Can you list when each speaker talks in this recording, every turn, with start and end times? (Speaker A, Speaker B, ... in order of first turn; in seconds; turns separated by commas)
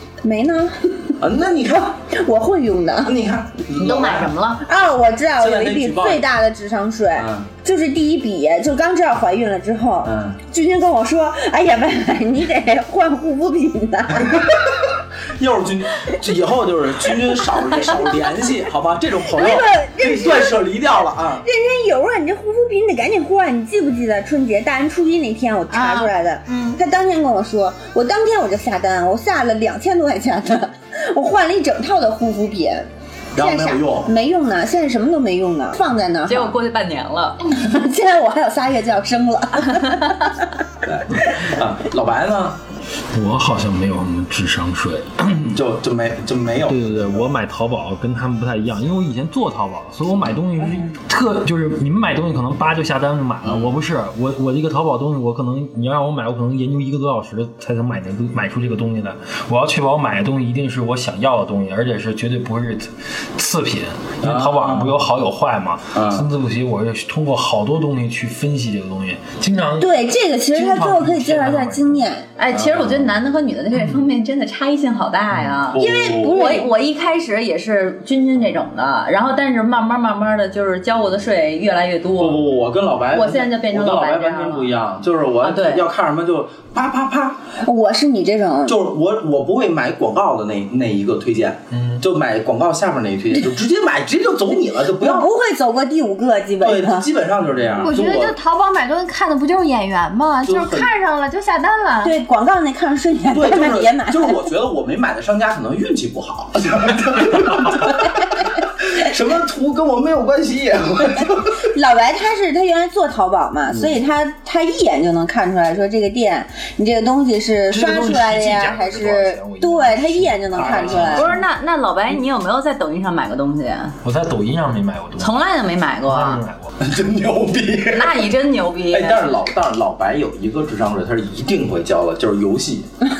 Speaker A: 0.2-1.1, Speaker B: 1.2-2.1, Speaker A: 2.1-3.1, Speaker B: 3.0-4.3, Speaker C: 3.8-4.6, Speaker A: 4.6-14.6, Speaker B: 5.4-6.3, Speaker B: 7.2-7.5, Speaker B: 10.0-10.4, Speaker B: 14.2-21.4, Speaker A: 19.3-20.6, Speaker A: 21.4-36.6, Speaker D: 25.7-26.8, Speaker B: 33.4-34.1, Speaker C: 36.3-37.4, Speaker A: 37.5-40.5, Speaker C: 39.7-40.2, Speaker B: 40.8-42.6, Speaker E: 43.1-45.5, Speaker B: 45.5-47.3, Speaker E: 46.7-69.9, Speaker B: 53.4-53.7, Speaker B: 64.2-65.0, Speaker B: 65.9-66.3, Speaker A: 69.8-72.2, Speaker E: 70.5-72.0, Speaker C: 72.4-82.5, Speaker B: 72.5-73.1, Speaker B: 75.7-76.4, Speaker A: 75.8-76.7, Speaker B: 82.2-87.5, Speaker C: 83.1-84.8, Speaker C: 85.4-85.9, Speaker A: 87.6-88.8, Speaker B: 88.7-95.3, Speaker E: 91.7-92.0, Speaker A: 95.0-97.1, Speaker B: 96.6-98.4, Speaker D: 97.8-102.1, Speaker B: 100.5-100.9, Speaker A: 102.0-104.4, Speaker B: 103.3-108.1, Speaker B: 108.8-111.6, Speaker A: 111.6-121.3, Speaker B: 113.7-114.0, Speaker E: 117.7-121.4, Speaker B: 120.6-121.1, Speaker C: 121.1-124.0, Speaker E: 124.0-125.3, Speaker C: 125.2-126.4, Speaker E: 126.1-126.7, Speaker B: 126.8-128.3, Speaker C: 127.9-129.3, Speaker B: 128.9-132.9